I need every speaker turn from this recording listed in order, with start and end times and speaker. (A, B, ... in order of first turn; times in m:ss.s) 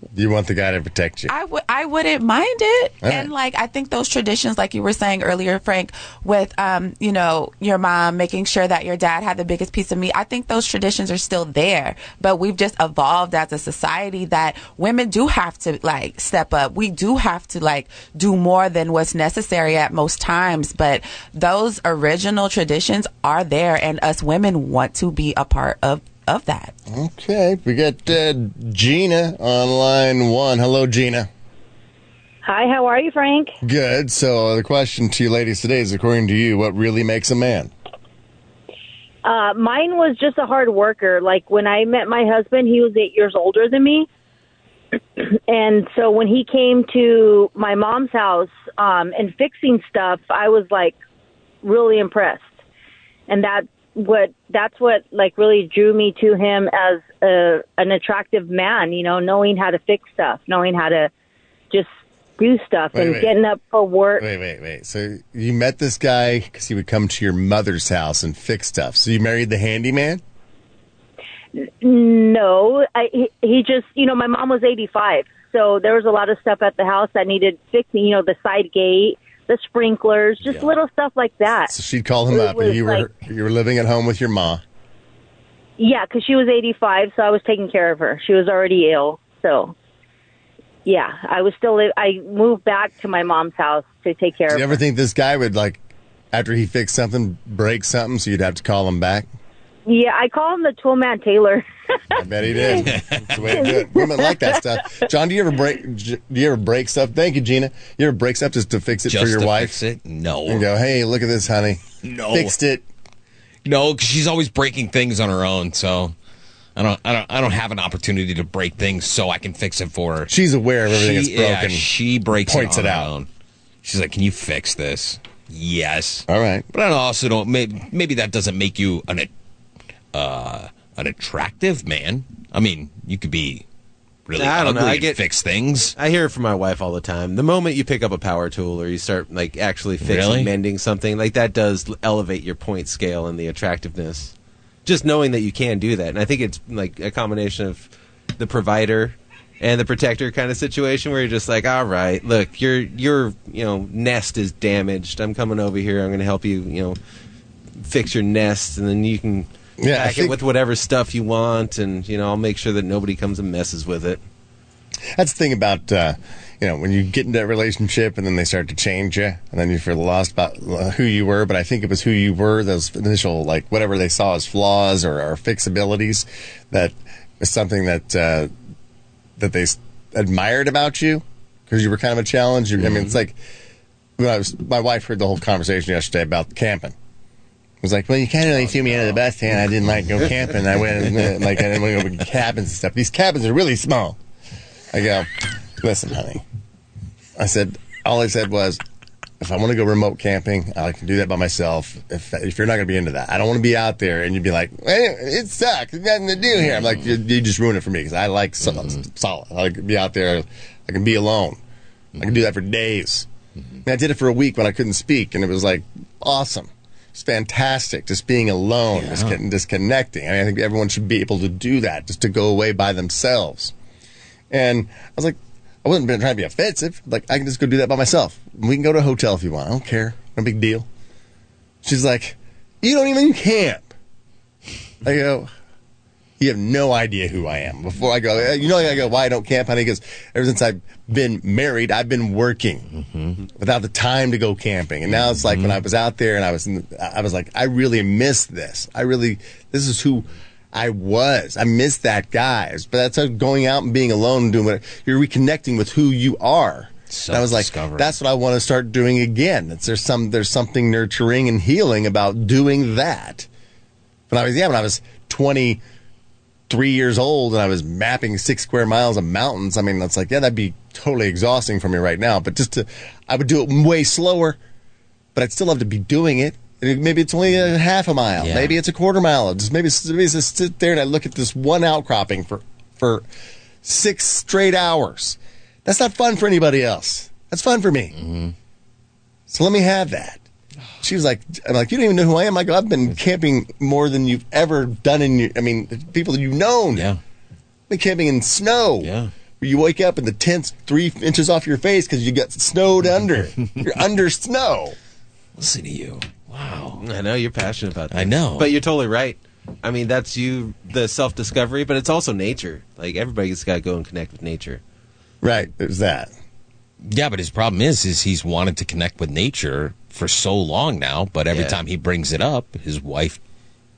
0:00.2-0:01.3 A
0:01.3-0:26.7 B
0:03.0-0:03.3 A
0:26.9-0:31.3 A
0:32.4-0:33.6 C
0:33.6-0:37.7 A
0:39.2-0:44.1 C
0:45.2-0:51.0 C
0:51.6-0:52.5 C
0:53.3-1:01.1 C
1:01.7-1:04.2 C
1:02.9-1:03.3 A
1:04.2-1:10.2 A
1:11.6-1:21.7 C
1:20.5-1:20.7 D
1:21.7-1:24.6 A
1:22.3-1:23.0 C
1:25.8-1:29.7 C
1:30.9-1:34.8 C
1:34.5-1:35.8 A
1:36.3-1:39.3 A
1:39.9-1:42.2 C
1:42.2-1:49.8 A
1:42.7-1:43.4 D
1:43.6-1:44.4 C
1:49.1-1:50.6 D
1:50.5-1:52.8 A
1:52.0-1:52.5 D
1:53.6-1:56.1 D
1:56.8-2:00.3 D
2:00.3-2:01.8 A
2:00.9-2:03.3 D
2:02.5-2:03.1 A
2:03.8-2:09.3 D
2:06.3-2:06.7 A
2:10.1-2:13.6 D
2:14.3-2:16.0 D
2:14.4-2:15.2 E
2:16.0-2:24.3 E
2:20.0-2:20.5 D
2:24.8-2:37.0 E
2:37.8-2:44.2 E
2:39.8-2:40.4 A
2:45.1-2:58.5 A
2:59.4-3:03.4 A
3:04.2-3:07.0 A
3:07.8-3:14.2 A
3:08.8-3:09.1 D
3:14.9-3:16.4 A
3:17.4-3:18.8 A
3:19.4-3:31.6 A
3:32.2-3:33.3 A
3:33.8-3:43.7 A
3:39.0-3:39.4 D
3:44.5-3:50.9 A
3:51.8-3:53.9 A
3:55.0-3:55.5 A
3:56.4-4:02.9 A
4:03.0-4:03.4 D
4:03.6-4:23.5 A
4:05.4-4:05.8 D
4:17.1-4:18.1 D
4:24.3-4:25.8 A
4:26.7-4:34.6 A
4:35.4-4:43.3 A
4:38.4-4:38.8 D
4:43.8-4:48.2 A
4:48.2-4:48.5 D
4:49.5-4:50.4 A
4:51.0-4:57.1 A
4:56.9-4:57.2 D
4:57.9-5:05.0 A
4:59.0-4:59.3 D
5:05.6-5:07.0 D
5:07.0-5:14.8 E
5:08.1-5:08.8 D
5:15.4-5:16.3 A
5:17.0-5:23.4 D
5:21.5-5:21.8 E